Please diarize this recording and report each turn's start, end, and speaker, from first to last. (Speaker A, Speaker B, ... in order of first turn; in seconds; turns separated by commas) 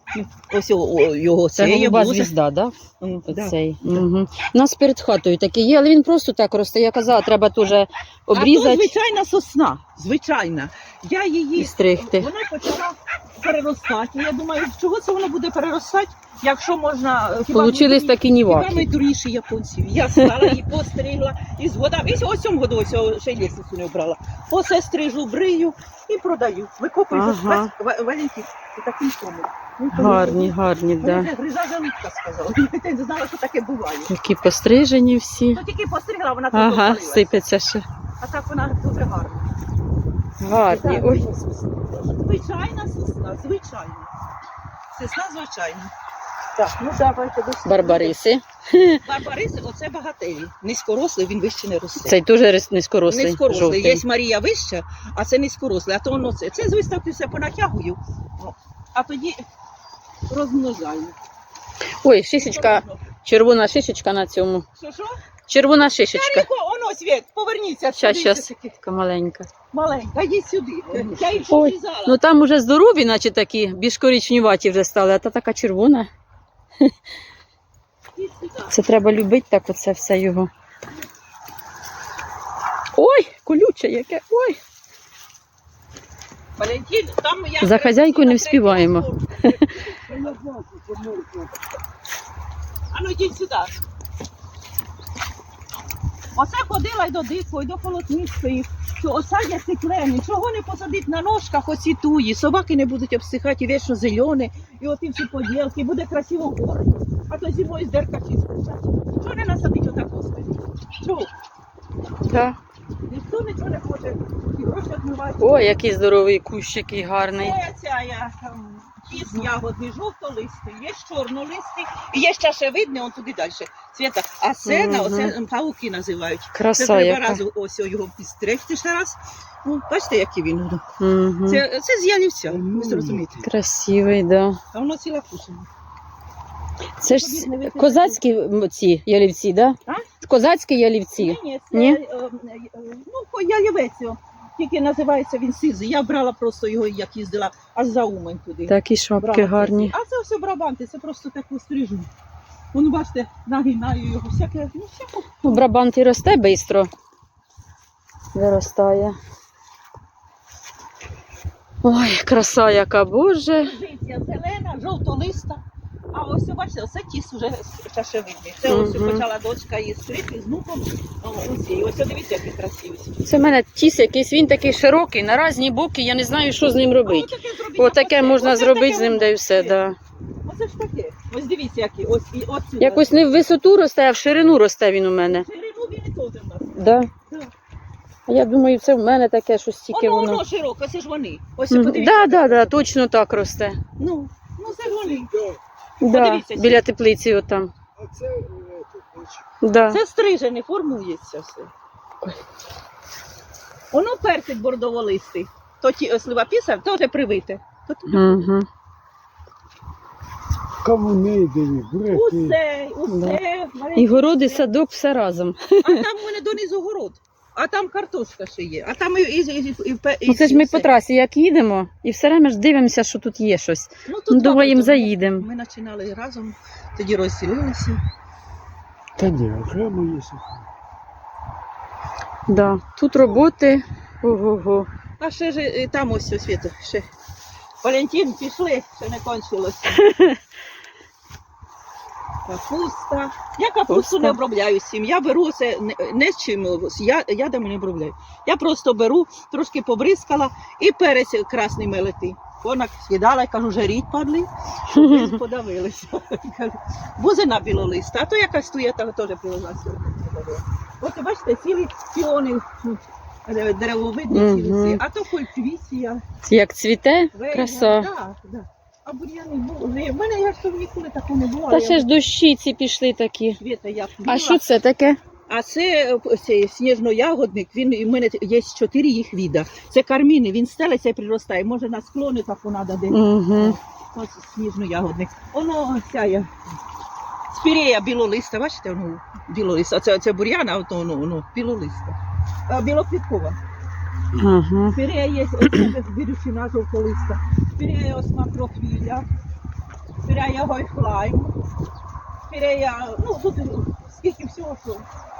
Speaker A: 0.1-2.3, Speaker B: 1.6-2.8, Speaker A: 3.0-4.0, Speaker B: 3.3-8.9, Speaker A: 8.3-34.1, Speaker B: 11.6-12.3, Speaker B: 17.4-18.9, Speaker B: 27.1-27.7, Speaker B: 29.9-31.3, Speaker B: 34.1-35.6, Speaker A: 35.5-37.3, Speaker B: 36.5-37.8, Speaker A: 38.2-39.5, Speaker B: 40.4-41.2, Speaker A: 40.6-41.2, Speaker C: 41.0-42.0, Speaker A: 42.2-44.1, Speaker A: 44.9-45.9, Speaker A: 46.5-48.2, Speaker B: 47.6-49.0, Speaker A: 49.0-52.2, Speaker B: 52.0-54.0, Speaker A: 53.1-59.4, Speaker A: 60.3-61.1, Speaker B: 62.0-64.6, Speaker A: 62.4-63.0, Speaker A: 64.8-65.2, Speaker B: 65.5-66.5, Speaker A: 66.1-68.7, Speaker B: 67.9-69.5, Speaker A: 69.7-72.2, Speaker B: 71.4-76.1, Speaker A: 78.2-78.7, Speaker B: 78.7-80.5, Speaker B: 83.0-84.6, Speaker A: 86.6-89.6, Speaker B: 87.6-89.7, Speaker C: 90.0-91.5, Speaker A: 92.9-93.7, Speaker A: 96.3-111.3, Speaker B: 112.2-112.6, Speaker A: 113.1-115.7, Speaker B: 115.4-117.6, Speaker A: 117.3-130.8, Speaker B: 124.6-125.3, Speaker B: 126.5-127.4, Speaker B: 131.0-131.6, Speaker A: 131.4-133.4, Speaker C: 132.5-133.3, Speaker B: 133.4-134.6, Speaker A: 134.7-135.7, Speaker B: 137.0-142.0, Speaker A: 137.0-138.2, Speaker A: 141.2-152.1, Speaker B: 148.7-149.9, Speaker A: 152.7-155.6, Speaker B: 155.4-156.9, Speaker B: 158.3-159.2, Speaker B: 161.8-163.7, Speaker A: 163.6-165.6, Speaker A: 166.1-173.1, Speaker B: 168.7-169.2, Speaker B: 173.2-179.9, Speaker A: 177.0-179.8, Speaker A: 180.4-183.2, Speaker B: 182.8-185.4, Speaker A: 185.3-187.5, Speaker B: 186.7-187.1, Speaker B: 188.3-190.4, Speaker A: 189.9-192.8, Speaker B: 191.7-193.8, Speaker A: 194.0-195.3, Speaker C: 194.9-195.6, Speaker B: 196.0-197.7, Speaker A: 196.0-196.8, Speaker C: 197.9-199.4, Speaker B: 199.6-200.0, Speaker A: 199.9-201.7, Speaker A: 203.9-208.4, Speaker B: 208.1-208.7, Speaker C: 210.8-212.6, Speaker A: 212.1-214.7, Speaker B: 213.1-213.4, Speaker B: 213.9-216.0, Speaker A: 215.8-220.9, Speaker B: 220.3-225.4, Speaker A: 224.1-228.0, Speaker C: 229.2-230.6, Speaker B: 232.5-234.9, Speaker A: 235.2-237.1, Speaker A: 237.8-240.3, Speaker A: 242.4-266.2, Speaker B: 243.9-244.4, Speaker B: 254.9-255.3, Speaker B: 264.3-265.0, Speaker B: 266.4-268.1, Speaker A: 267.3-272.1, Speaker B: 271.7-273.6, Speaker A: 273.6-274.6, Speaker B: 274.2-275.2, Speaker A: 275.5-286.5, Speaker B: 283.1-283.8, Speaker A: 287.5-292.1, Speaker A: 292.7-293.6, Speaker B: 294.3-295.0, Speaker A: 294.9-299.2, Speaker A: 300.2-301.5, Speaker A: 302.5-305.1